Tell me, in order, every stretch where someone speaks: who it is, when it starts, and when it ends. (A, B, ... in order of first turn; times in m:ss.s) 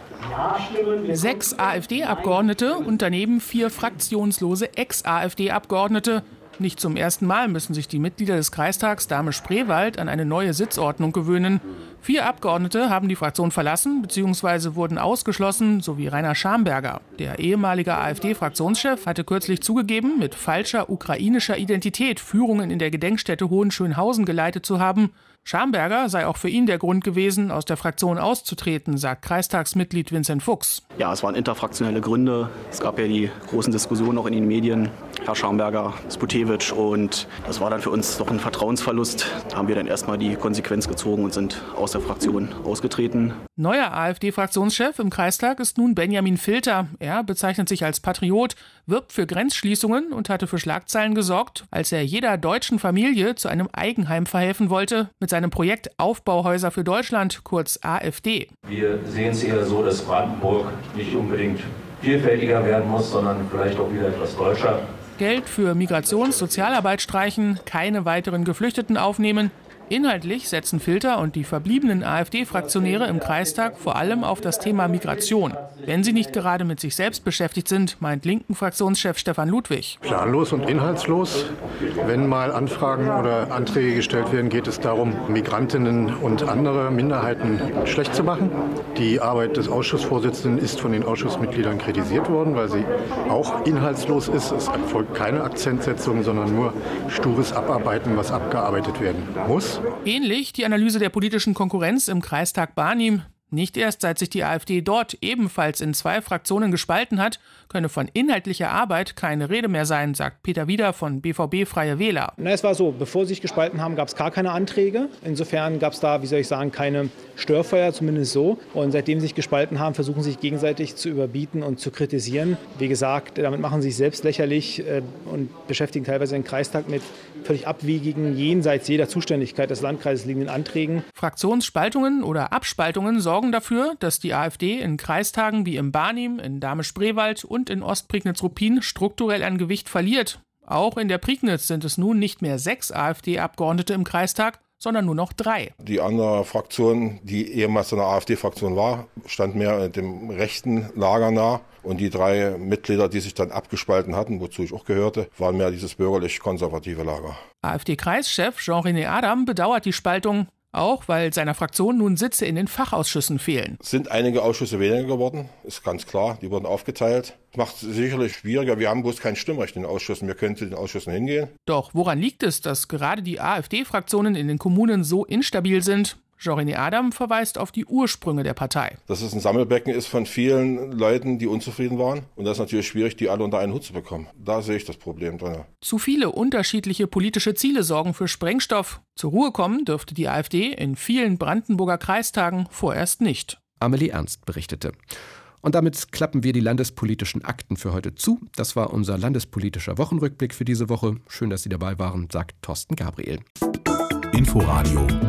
0:01.1-0:30.8 A
0:31.0-0:43.4 B
0:43.6-0:58.5 A
0:58.7-1:04.8 C
1:05.2-1:20.0 A
1:20.0-1:39.8 D
1:40.0-1:52.3 A
1:52.4-2:11.0 E
2:11.1-2:25.7 A
2:25.8-2:37.4 F
2:37.6-2:43.8 A
2:43.8-2:51.5 F
2:51.6-2:59.0 A
2:59.1-3:05.7 F
3:05.8-3:13.6 A
3:13.8-3:14.9 G
3:15.6-3:23.4 G